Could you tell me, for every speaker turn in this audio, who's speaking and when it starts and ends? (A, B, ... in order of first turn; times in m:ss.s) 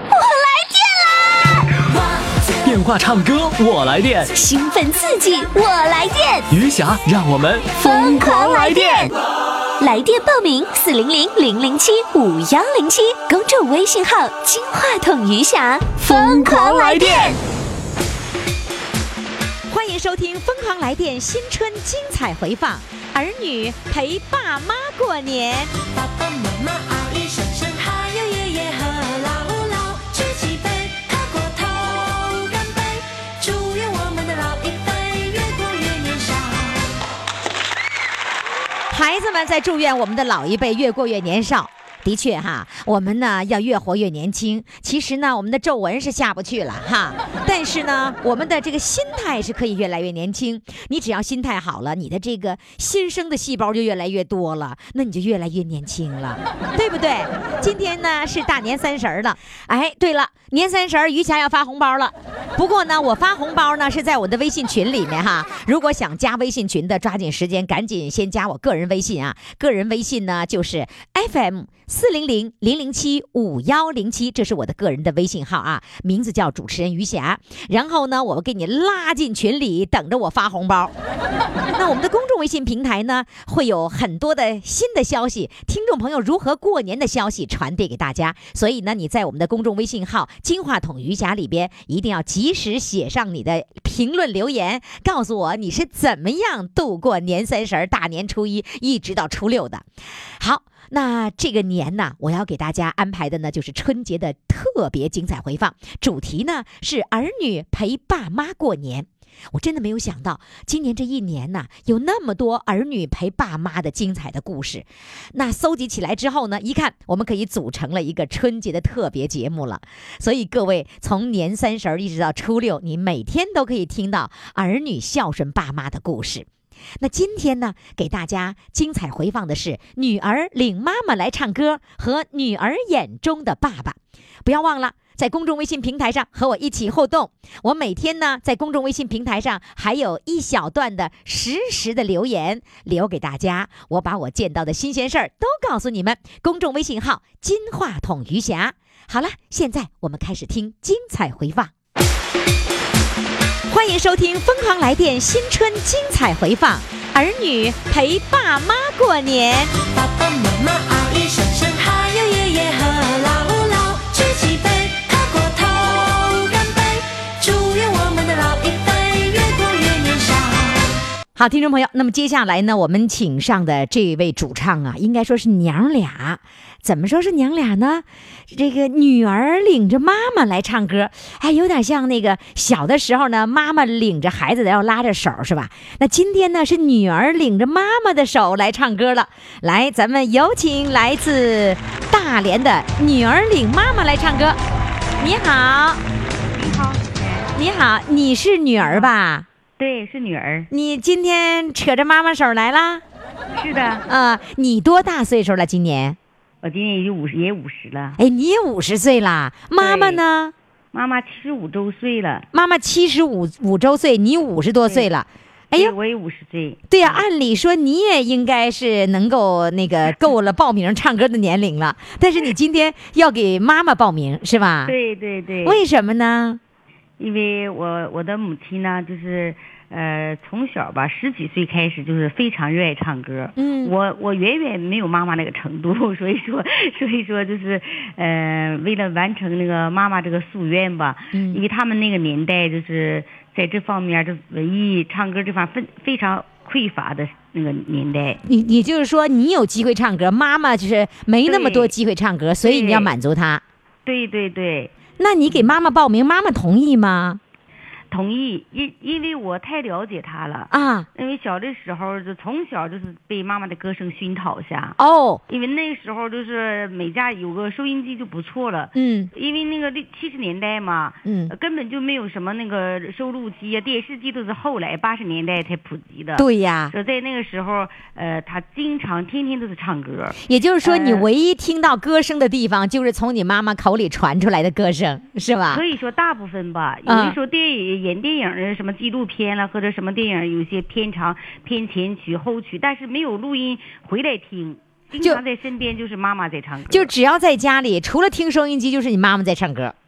0:00.1-0:01.6 A
0:02.6-0:04.3 B
0:04.3-0:06.5 A
0:06.5-0:08.4 B
0:07.8-0:09.1 A
0:09.8-0:17.4 A
0:16.1-0:17.3 B
0:19.7-0:25.7 C
0:25.9-0:36.9 D
0:38.9-1:20.9 C
1:21.7-1:39.8 C
1:40.4-2:06.5 C
2:07.0-2:31.7 C
2:33.7-2:39.8 C
2:39.9-2:51.0 D
2:51.4-3:14.6 C
3:15.2-3:16.0 C
3:16.5-3:17.5 E
3:17.5-3:19.4 C
3:18.8-3:19.1 E
3:19.8-3:20.7 E
3:20.7-3:23.0 C
3:23.5-3:24.0 E
3:24.1-3:26.2 C
3:26.6-3:28.2 E
3:28.2-3:30.5 C
3:29.8-3:30.2 E
3:30.9-3:32.4 E
3:32.5-3:35.9 C
3:35.7-3:37.2 E
3:36.9-3:44.9 C
3:44.8-3:45.8 E
3:45.6-3:46.6 C
3:47.2-4:08.4 E
3:53.6-3:53.9 C
4:01.3-4:01.6 C
4:08.4-4:13.6 C
4:11.4-4:11.9 E
4:12.6-4:13.1 E
4:14.0-4:14.9 E
4:15.2-4:17.4 C
4:15.5-4:15.7 E
4:18.1-4:25.0 E
4:20.7-4:21.1 C
4:25.0-4:25.4 C
4:25.5-4:41.3 E
4:28.9-4:29.3 C
4:31.2-4:31.5 C
4:36.4-4:36.9 C
4:40.4-4:45.8 C
4:45.7-4:57.1 E
4:47.0-4:47.4 C
4:56.9-4:59.9 C